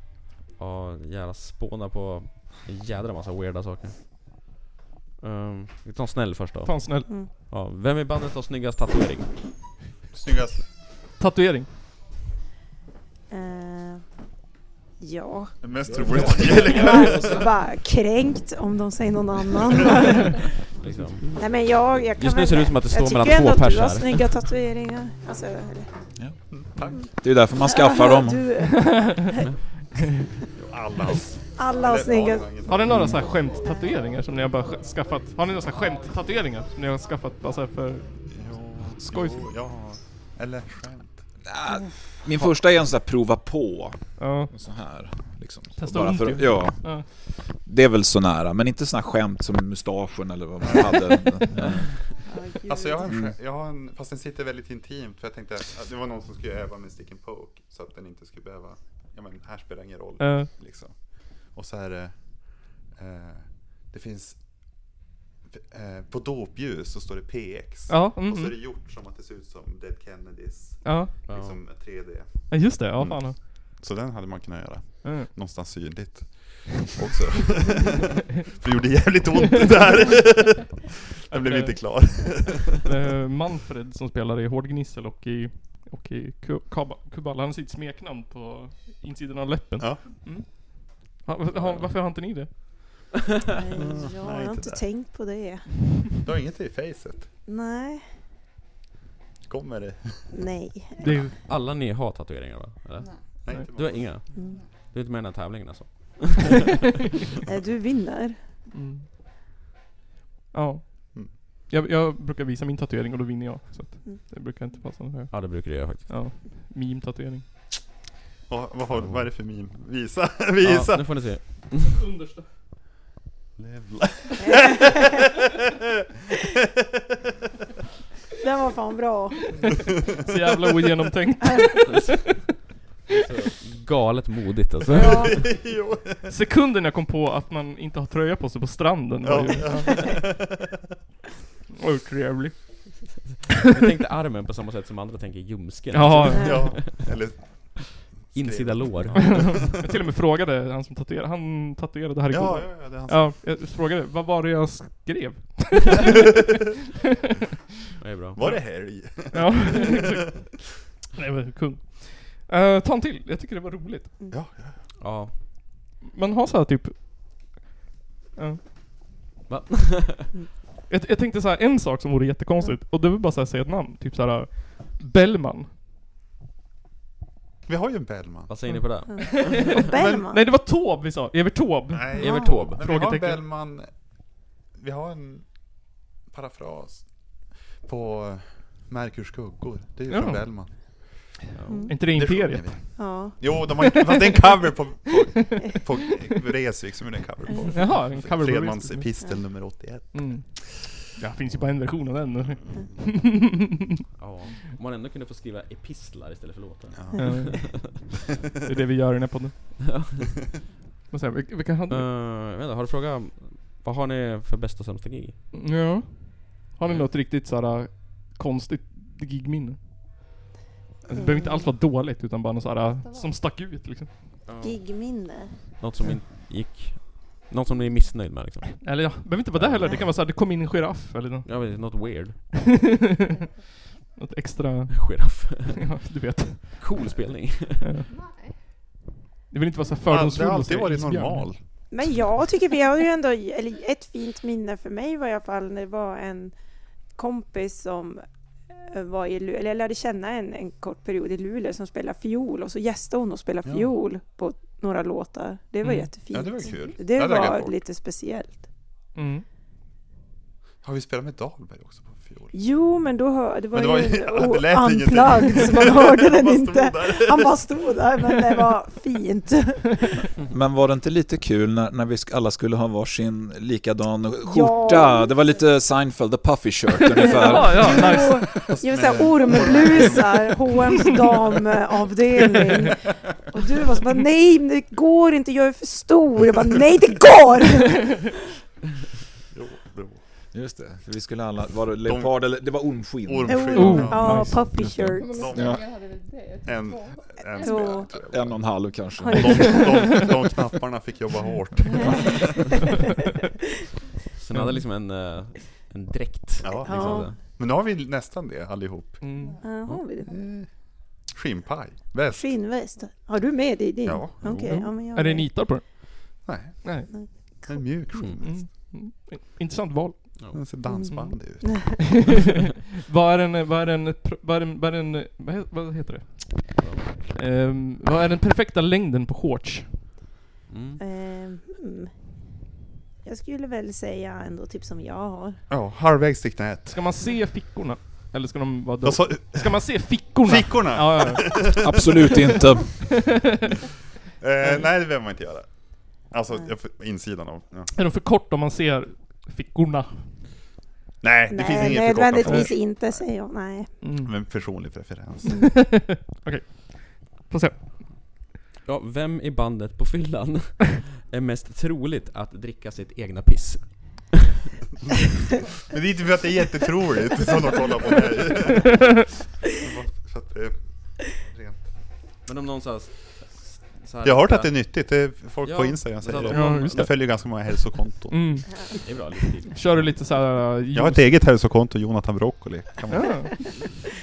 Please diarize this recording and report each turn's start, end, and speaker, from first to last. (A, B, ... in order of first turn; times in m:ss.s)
0:00.6-0:04.3 A
0:05.2-0:09.5 A
0:06.6-0:07.3 B
0:10.1-0:10.7 C
0:11.2-0:11.7 B
0:13.3-0:14.1 D
0:15.0-0:20.5 D
0:15.6-0:17.4 C
0:15.9-0:17.0 E
0:20.8-0:21.4 A
0:21.4-0:25.9 D
0:22.2-0:24.3 A
0:26.5-0:27.0 C
0:27.1-0:28.5 E
0:27.6-0:29.5 D
0:28.7-0:29.3 B
0:30.6-0:33.2 C
0:31.6-0:32.5 D
0:32.6-0:38.3 B
0:32.9-0:33.2 E
0:38.3-0:41.2 C
0:39.0-0:39.5 B
0:41.5-0:52.0 E
0:44.2-0:44.5 B
0:45.8-0:47.1 B
0:50.6-0:51.2 C
0:52.3-0:53.1 D
0:52.7-1:04.9 C
0:53.1-0:53.3 E
1:00.2-1:00.5 B
1:05.5-1:22.8 C
1:07.9-1:08.6 B
1:10.8-1:11.3 B
1:11.3-1:11.6 A
1:12.5-1:13.5 B
1:15.0-1:15.3 B
1:21.3-1:33.0 B
1:29.8-1:30.5 C
1:31.6-1:31.9 A
1:33.5-1:35.9 D
1:33.8-1:34.9 C
1:36.2-1:37.3 C
1:37.5-1:38.1 D
1:39.5-1:40.4 C
1:40.3-1:41.1 D
1:41.0-1:41.4 B
1:41.4-1:46.6 A
1:43.0-1:43.4 F
1:43.4-1:44.2 C
1:44.3-1:44.7 F
1:44.4-1:44.6 D
1:47.5-1:48.4 D
1:48.7-1:49.1 B
1:50.5-1:57.7 B
1:55.3-1:56.2 A
1:58.5-2:01.4 C
1:59.0-1:59.2 A
2:00.6-2:02.0 A
2:01.8-2:02.5 B
2:03.6-2:05.0 C
2:04.4-2:05.1 D
2:08.4-2:09.4 D
2:09.6-2:12.4 B
2:13.1-2:15.3 A
2:14.9-2:16.4 C
2:15.0-2:15.3 D
2:16.2-2:20.2 B
2:19.2-2:20.6 C
2:21.8-2:23.1 B
2:23.7-2:27.1 A
2:25.9-2:26.8 B
2:26.3-2:26.6 D
2:26.4-2:29.6 C
2:28.3-2:29.7 A
2:29.2-2:36.4 B
2:32.3-2:33.3 C
2:38.0-2:38.5 A
2:38.4-2:40.0 C
2:39.3-2:40.4 B
2:41.2-2:44.2 B
2:44.3-2:44.9 C
2:45.0-2:45.4 A
2:46.0-2:47.6 B
2:48.4-2:48.6 B
2:49.5-2:50.3 A
2:50.9-2:55.7 B
2:57.7-2:58.8 C
2:58.5-2:59.8 A
2:58.7-3:03.4 B
2:59.2-3:00.4 D
3:00.0-3:00.2 C
3:01.9-3:20.9 C
3:02.2-3:02.8 A
3:10.1-3:10.8 B
3:11.6-3:11.9 A
3:11.7-3:11.9 D
3:11.9-3:14.4 B
3:13.0-3:13.6 D
3:15.3-3:15.9 B
3:17.7-3:19.4 B
3:20.1-3:24.0 B
3:22.5-3:23.0 C
3:24.2-3:27.9 A
3:26.9-3:27.8 C
3:27.2-3:28.0 B
3:28.6-3:30.0 B
3:29.9-3:30.6 A
3:31.1-3:32.1 B
3:31.9-3:35.4 A
3:35.5-3:40.4 B
3:36.8-3:37.1 A
3:41.1-3:44.1 B
3:41.1-3:41.7 D
3:43.0-3:43.5 F
3:44.5-3:44.8 A
3:44.6-3:45.5 D
3:45.8-3:50.0 A
3:48.8-3:53.4 B
3:51.4-3:52.5 A
3:54.2-3:56.9 B
3:54.9-3:55.8 A
3:56.8-3:57.8 A
3:57.8-3:58.1 B
3:58.1-3:58.6 F
3:59.5-4:01.5 B
4:00.1-4:01.6 C
4:01.9-4:06.5 D
4:07.1-4:18.7 D
4:13.6-4:13.9 C
4:15.8-4:16.1 B
4:16.3-4:17.8 C
4:19.2-4:19.4 B
4:20.8-4:22.5 C
4:22.5-4:30.3 D
4:23.7-4:27.9 C
4:30.5-4:38.1 E
4:34.5-4:35.3 D
4:37.2-4:38.8 B
4:37.2-4:48.3 D
4:38.8-4:40.6 C
4:49.5-4:50.2 C
4:50.5-4:53.9 E
4:52.0-4:54.5 C
4:53.5-4:55.4 D
4:53.7-4:54.8 B
4:55.2-4:58.2 F
4:55.2-4:55.9 C
4:55.5-4:55.8 E
4:56.6-5:02.5 C
4:57.6-4:58.1 D
4:58.3-4:59.9 E
4:59.2-5:00.3 D
5:02.0-5:02.4 D
5:04.4-5:07.4 A
5:04.5-5:04.8 B
5:06.6-5:09.2 C
5:06.7-5:07.3 D
5:09.2-5:09.6 B
5:09.4-5:09.8 F
5:09.6-5:10.3 D
5:10.3-5:12.6 C
5:12.3-5:15.7 D
5:14.0-5:14.8 C
5:14.5-5:17.1 B
5:16.4-5:17.0 C
5:17.1-5:17.9 D
5:17.7-5:18.7 C
5:18.3-5:30.1 B
5:20.4-5:20.7 A
5:20.5-5:22.1 C
5:20.8-5:21.9 D
5:26.8-5:27.3 A
5:30.7-5:31.0 A
5:31.0-5:32.1 D
5:33.2-5:35.6 D
5:35.7-5:37.0 C
5:36.9-5:41.8 B
5:39.0-5:42.3 C
5:41.5-5:43.0 E
5:43.0-5:43.7 B
5:44.4-5:47.9 C
5:47.9-5:50.4 B
5:51.2-5:53.2 C
5:51.5-5:53.9 D
5:52.4-5:52.7 B
5:54.0-5:54.4 B
5:54.0-5:55.7 C
5:55.5-5:58.1 B
5:58.8-6:04.5 A
6:05.9-6:11.9 C
6:12.4-6:17.4 A
6:14.2-6:18.7 C
6:16.5-6:17.7 B
6:18.3-6:19.1 B
6:18.9-6:20.1 A
6:19.7-6:21.4 B
6:20.9-6:23.8 C
6:23.1-6:23.6 B